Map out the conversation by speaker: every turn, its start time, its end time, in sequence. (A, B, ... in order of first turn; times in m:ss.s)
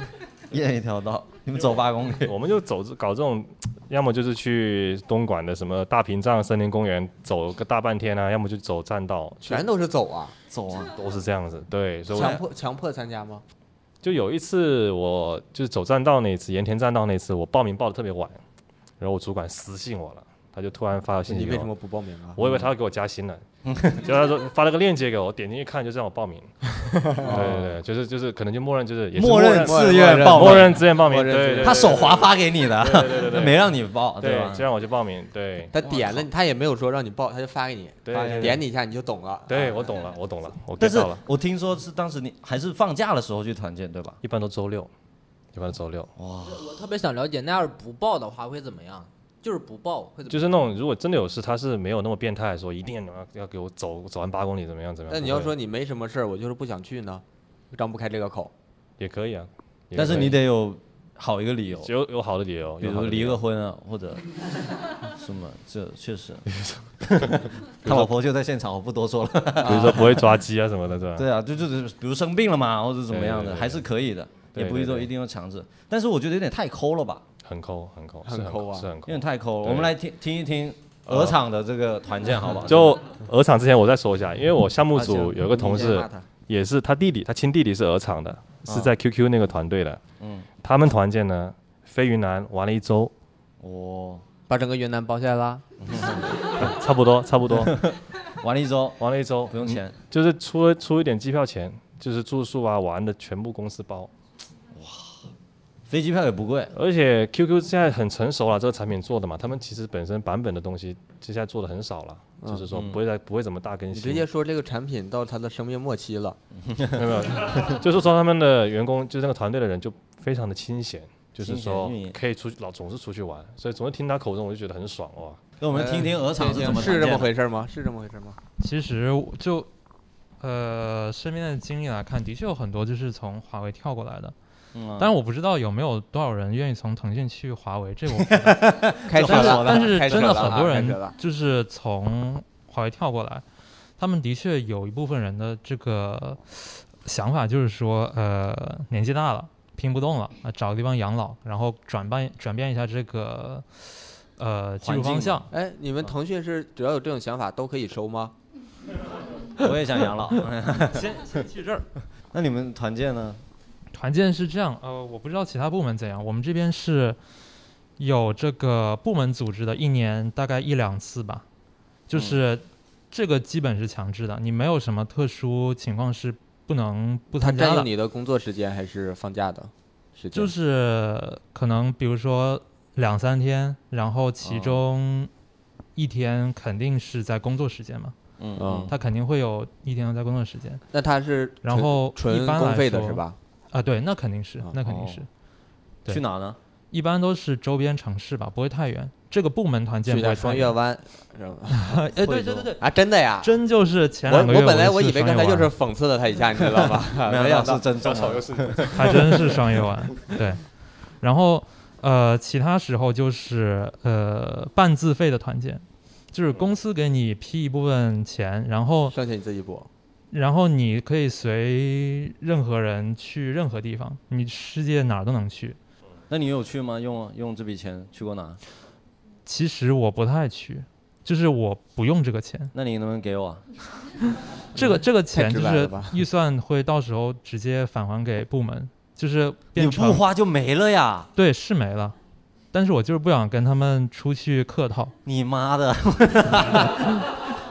0:00.5-0:02.4 A
0:02.2-0:09.7 B
0:09.4-0:10.3 C
0:10.5-0:11.0 A
0:11.0-0:12.4 B
0:12.1-0:13.4 C
0:14.0-0:18.4 B
0:19.0-0:21.7 B
0:21.3-0:22.6 C
0:22.4-0:23.4 B
0:23.6-0:24.1 A
0:24.0-0:26.5 B
0:27.0-0:27.7 C
0:27.2-0:33.6 B
0:29.2-0:30.8 A
0:29.3-0:32.2 C
0:31.6-0:34.6 A
0:34.2-0:35.7 B
0:35.7-0:39.9 C
0:35.8-0:36.3 A
0:38.1-0:38.6 B
0:38.2-0:38.6 A
0:39.5-0:41.2 B
0:40.8-0:44.2 A
0:44.2-0:44.9 B
0:45.5-0:46.1 B
0:46.2-0:46.6 A
0:46.4-0:50.6 D
0:50.3-0:55.6 B
0:55.1-0:58.5 C
0:59.0-1:00.4 B
0:59.9-1:01.9 A
1:01.8-1:03.4 B
1:02.8-1:04.3 A
1:05.2-1:06.5 A
1:06.6-1:08.1 B
1:07.0-1:10.3 A
1:09.6-1:10.1 C
1:09.6-1:11.3 B
1:11.2-1:17.2 A
1:13.1-1:13.8 B
1:14.6-1:15.1 B
1:17.4-1:20.0 B
1:18.3-1:18.9 C
1:19.1-1:23.0 A
1:21.1-1:21.4 B
1:22.6-1:30.0 B
1:25.5-1:26.1 D
1:28.7-1:28.9 A
1:30.2-1:30.5 A
1:30.6-1:33.1 B
1:33.6-1:34.2 A
1:34.5-1:35.6 C
1:35.8-1:36.3 A
1:36.6-1:37.9 B
1:37.6-1:40.0 A
1:39.0-1:44.1 B
1:44.8-1:45.3 A
1:45.9-1:46.7 A
1:46.7-1:54.3 B
1:52.7-1:53.0 A
1:53.9-1:56.4 C
1:56.6-1:57.8 A
1:57.0-2:05.4 B
2:01.4-2:02.2 A
2:05.6-2:07.3 A
2:05.7-2:08.4 C
2:08.6-2:09.7 E
2:10.4-2:14.4 E
2:14.8-2:15.1 A
2:15.0-2:23.4 E
2:18.3-2:20.6 A
2:19.1-2:21.2 C
2:24.0-2:35.5 E
2:34.8-2:35.5 A
2:35.5-2:38.3 C
2:39.6-2:41.3 A
2:40.9-2:41.9 E
2:42.3-2:43.4 A
2:43.9-2:47.2 E
2:48.0-2:51.4 E
2:52.1-2:57.9 E
2:52.1-2:52.4 A
2:57.4-3:00.5 C
3:00.3-3:05.3 E
3:04.4-3:04.8 A
3:06.0-3:08.2 E
3:08.4-3:08.9 A
3:08.6-3:08.9 C
3:08.9-3:10.8 E
3:10.9-3:13.4 C
3:11.6-3:15.3 E
3:14.8-3:15.2 A
3:16.1-3:16.6 A
3:16.9-3:20.8 E
3:20.1-3:21.9 C
3:21.7-3:22.8 E
3:22.2-3:22.7 A
3:22.8-3:23.6 C
3:23.4-3:25.7 E
3:24.3-3:28.4 C
3:27.2-3:29.2 A
3:28.2-3:29.0 B
3:28.9-3:30.6 E
3:29.0-3:29.5 C
3:31.2-3:39.2 E
3:39.1-3:39.9 C
3:40.3-3:45.8 E
3:46.3-3:48.6 A
3:49.5-3:52.7 E
3:52.7-3:53.6 A
3:54.8-4:00.2 E
3:54.8-3:56.2 C
3:59.8-4:01.3 A
4:01.4-4:02.2 E
4:02.7-4:05.1 E
4:05.2-4:07.3 A